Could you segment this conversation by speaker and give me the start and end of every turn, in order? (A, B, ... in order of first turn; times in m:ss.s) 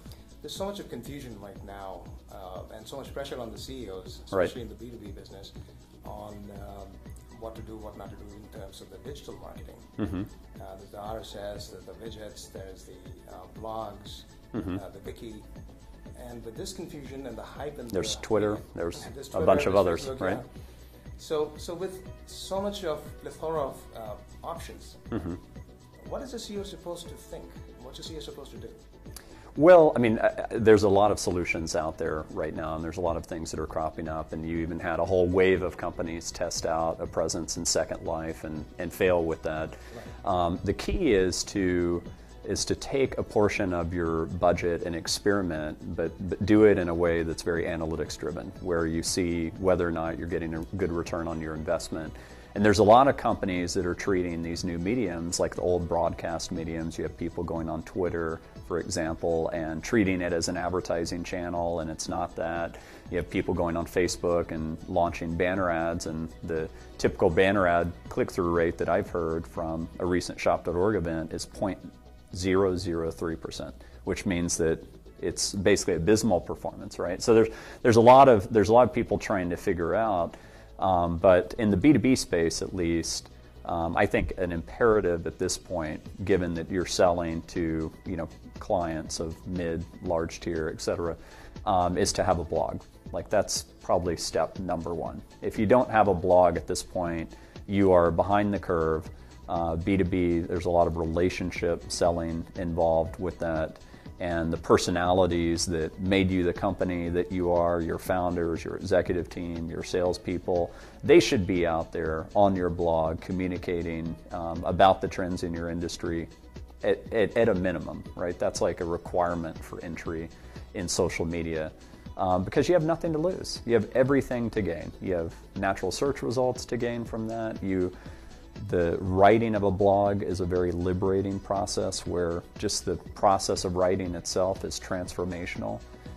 0:00.4-0:05.5 A
0:06.0-0:15.5 A
0:10.0-0:10.3 B
0:16.2-0:20.5 A
0:17.9-0:20.4 B
0:21.2-0:25.3 A
0:26.0-0:28.8 A
0:29.6-1:56.3 B
1:56.8-2:07.9 B
2:08.6-2:15.8 B